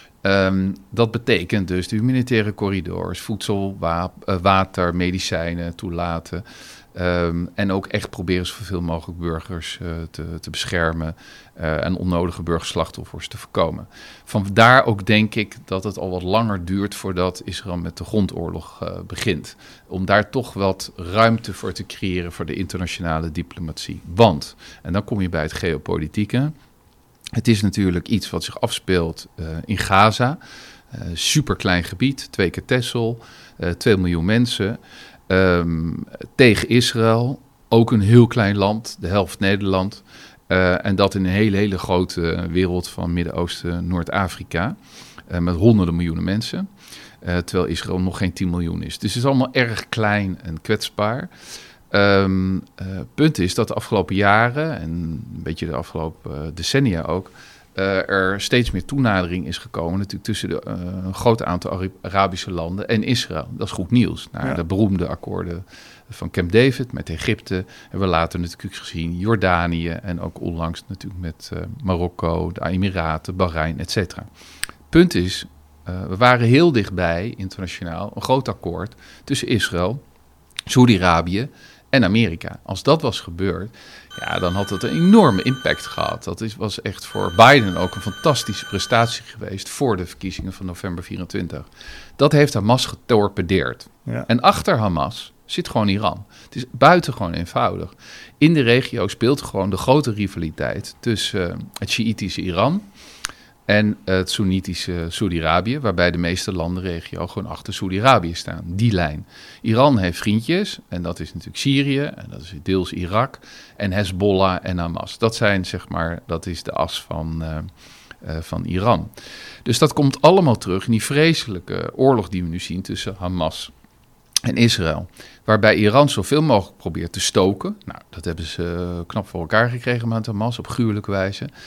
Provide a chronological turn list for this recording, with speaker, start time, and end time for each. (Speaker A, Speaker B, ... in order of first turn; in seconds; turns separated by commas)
Speaker A: 0.2-26.5, Speaker A: 27.4-30.4, Speaker A: 30.9-44.8, Speaker A: 45.3-46.6, Speaker A: 47.2-51.3, Speaker A: 51.9-74.3, Speaker A: 74.9-80.0, Speaker A: 80.7-91.7, Speaker A: 92.2-102.9, Speaker A: 103.7-117.7, Speaker A: 118.2-119.1, Speaker A: 119.6-123.7, Speaker A: 124.4-131.5